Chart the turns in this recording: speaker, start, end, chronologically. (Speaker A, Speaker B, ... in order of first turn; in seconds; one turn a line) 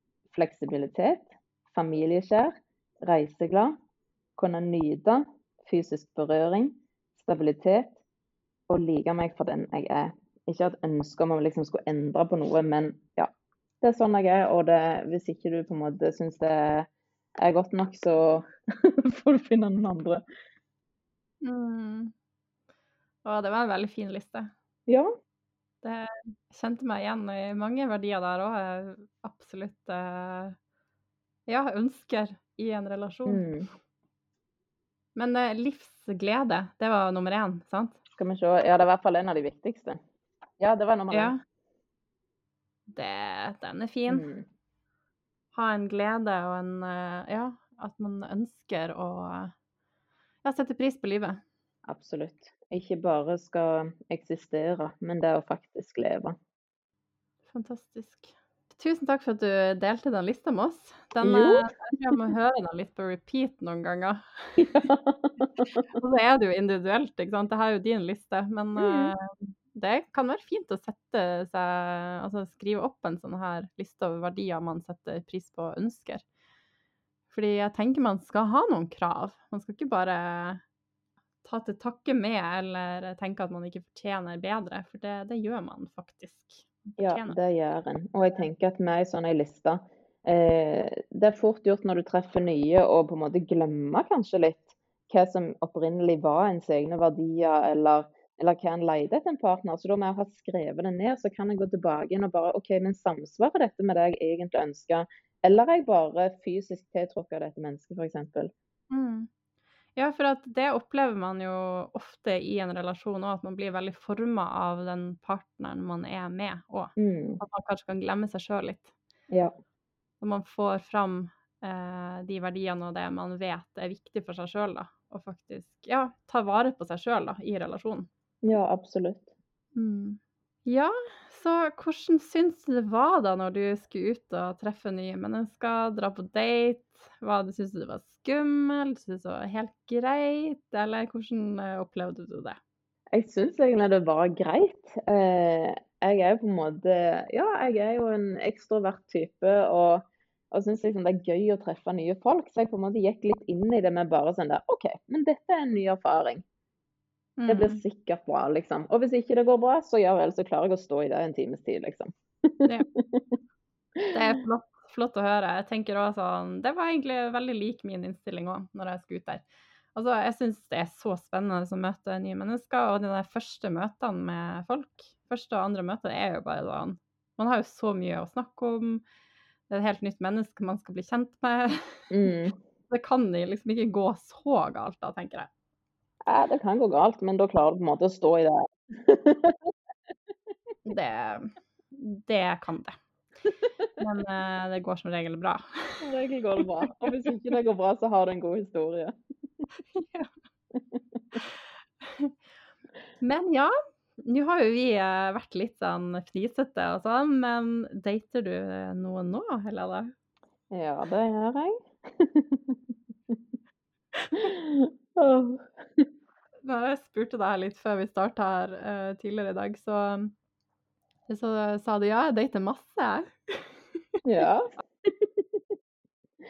Speaker A: 0.3-3.7
Speaker A: 4.4-8.0
Speaker A: 8.7-13.3
Speaker A: 13.8-16.9
Speaker A: 17.4-20.2
Speaker B: 21.4-22.1
Speaker B: 23.2-24.5
Speaker A: 24.9-25.1
Speaker B: 25.8-30.6
Speaker B: 31.5-33.5
Speaker A: 33.2-33.7
Speaker B: 35.1-38.0
Speaker A: 38.1-40.0
Speaker A: 40.6-41.3
Speaker B: 41.1-41.4
Speaker B: 42.9-44.2
Speaker A: 44.1-44.5
Speaker B: 45.5-49.5
Speaker B: 50.4-51.4
Speaker A: 51.9-56.4
Speaker B: 57.5-64.7
Speaker A: 61.2-61.7
Speaker A: 64.6-65.8
Speaker B: 65.6-76.2
Speaker A: 68.8-69.1
Speaker B: 77.3-80.6
Speaker B: 81.4-87.4
Speaker A: 87.0-108.5
Speaker B: 108.9-109.3
Speaker B: 110.0-118.9
Speaker A: 117.0-117.4
Speaker B: 120.2-128.1
Speaker A: 128.4-129.3
Speaker B: 129.7-142.6
Speaker A: 143.1-156.4
Speaker B: 157.4-157.8
Speaker A: 157.5-163.4
Speaker B: 164.1-169.4
Speaker B: 169.9-179.0
Speaker B: 179.7-182.1
Speaker A: 182.1-182.5
Speaker B: 182.9-185.5
Speaker A: 186.3-189.7
Speaker B: 190.8-192.9
Speaker B: 194.0-196.0
Speaker A: 196.0-199.1
Speaker B: 199.9-200.3
Speaker A: 200.7-201.4
Speaker B: 202.0-202.3
Speaker B: 203.2-210.1
Speaker A: 210.7-213.4
Speaker A: 214.3-216.1
Speaker B: 216.6-220.3
Speaker B: 221.3-223.8
Speaker A: 224.2-225.6